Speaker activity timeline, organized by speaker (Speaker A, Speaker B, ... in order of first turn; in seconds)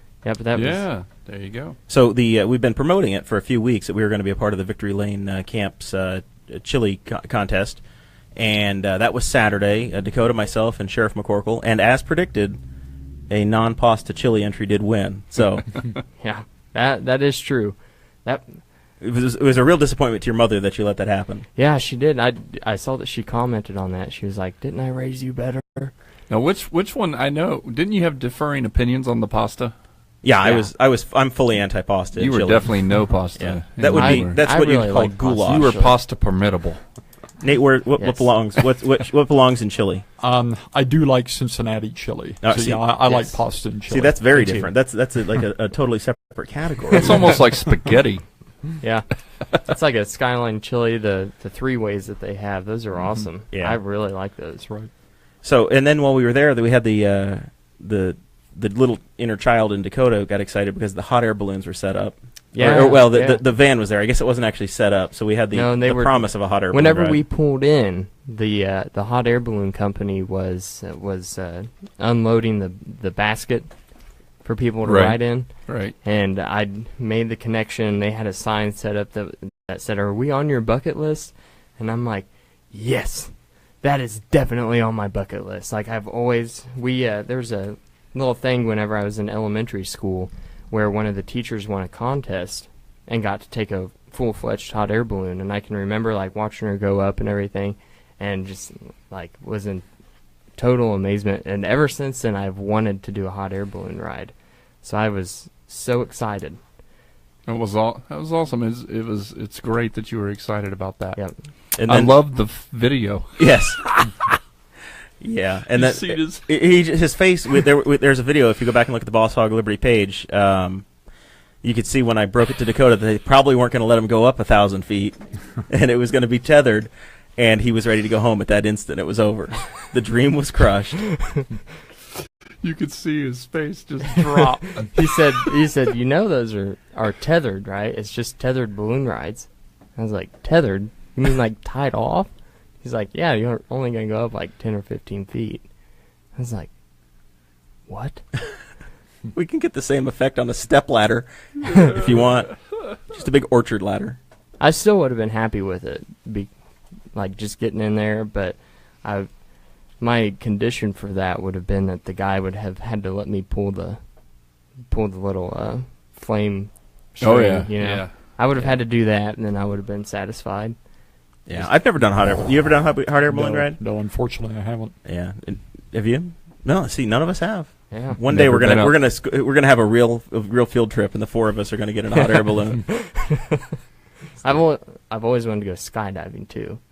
Speaker A: 0.2-0.9, 16.2-18.6, 21.6-25.9, 30.4-30.7, 33.9-36.0, 38.0-38.3, 48.8-54.7, 62.5-63.4, 65.5-73.7, 74.4-99.8, 100.6-106.6, 134.9-142.3, 142.8-145.7, 146.3-146.7, 147.9-148.2, 154.6-156.5, 157.1-159.3, 160.0-164.0, 164.9-170.7, 177.9-178.2, 182.9-183.6, 184.4-186.8
Speaker B: 0.5-1.8, 26.3-29.7, 32.1-34.4, 35.4-36.8, 47.0-48.2, 74.8-75.9, 107.5-111.2, 111.9-113.3, 115.7-116.4, 132.6-134.4, 167.2-168.1, 178.2-178.9
Speaker C: 1.9-7.8, 8.4-12.6, 13.3-15.8, 19.0-21.4, 30.2-32.7, 33.4-35.7, 37.4-40.0, 42.4-43.3, 43.9-47.1, 53.5-53.8, 55.4-67.2, 111.7-112.1, 113.4-114.4, 115.2-120.8, 121.6-131.2, 149.3-154.2, 171.5-173.8, 175.0-182.9
Speaker D: 40.2-44.7, 134.1-134.9, 173.3-174.9